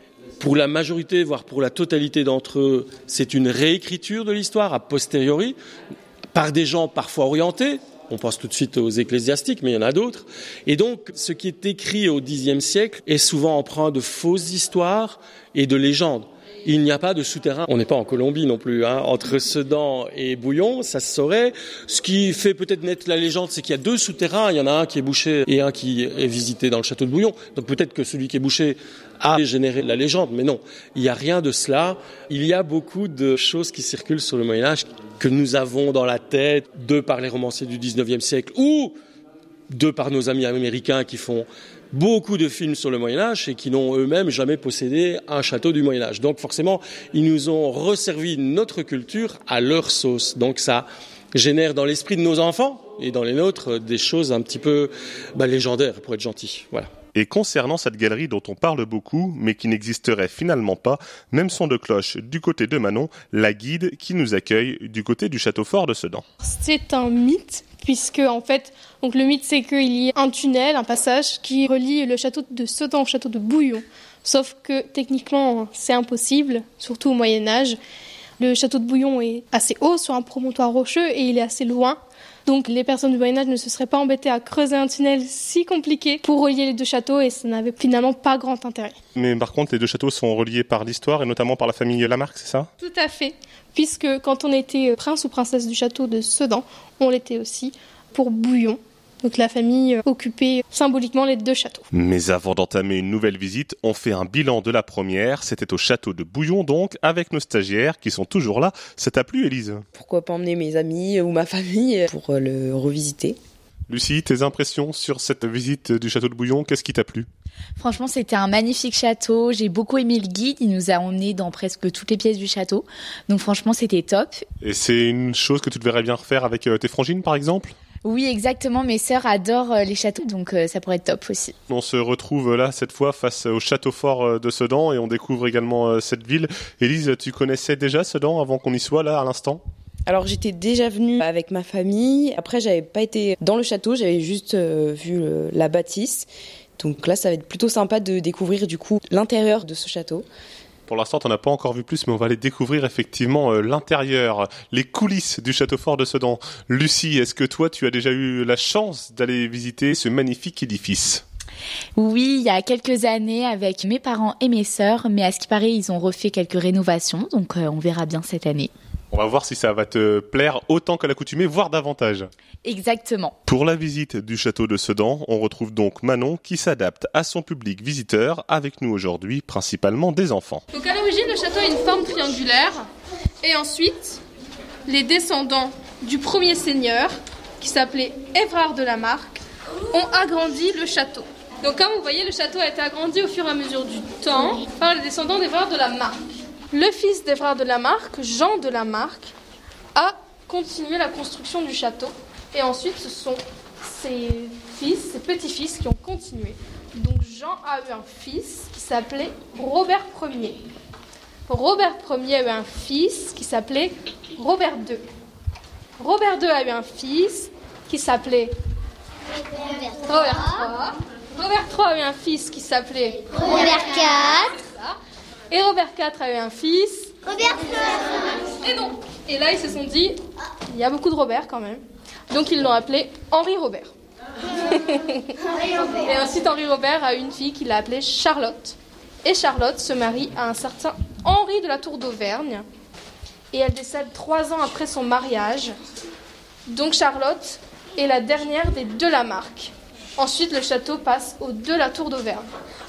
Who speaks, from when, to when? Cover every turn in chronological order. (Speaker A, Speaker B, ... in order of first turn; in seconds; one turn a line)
Speaker A: 0.4-5.6
Speaker A: 6.3-39.0
Speaker A: 39.7-56.9
Speaker B: 57.1-66.3
Speaker C: 66.4-77.8
Speaker C: 78.4-89.0
Speaker B: 89.2-92.7
Speaker C: 92.8-101.9
Speaker B: 101.9-109.8
Speaker D: 109.9-113.4
Speaker B: 113.9-117.3
Speaker E: 117.8-124.5
Speaker B: 124.6-127.8
Speaker E: 128.0-131.6
Speaker B: 131.7-139.6
Speaker D: 140.1-146.3
Speaker D: 146.8-150.3
Speaker B: 150.9-161.2
Speaker E: 162.0-168.7
Speaker B: 169.1-172.3
Speaker E: 172.6-173.3
Speaker B: 173.5-180.6
Speaker C: 180.7-182.9
Speaker C: 183.4-184.2
Speaker C: 184.9-189.4
Speaker C: 189.9-199.3
Speaker C: 199.9-210.6
Speaker C: 211.5-215.0
Speaker C: 216.0-218.6
Speaker C: 219.8-225.0
Speaker C: 225.5-233.9
Speaker C: 234.6-242.7
Speaker C: 243.5-245.7
Speaker C: 246.7-252.4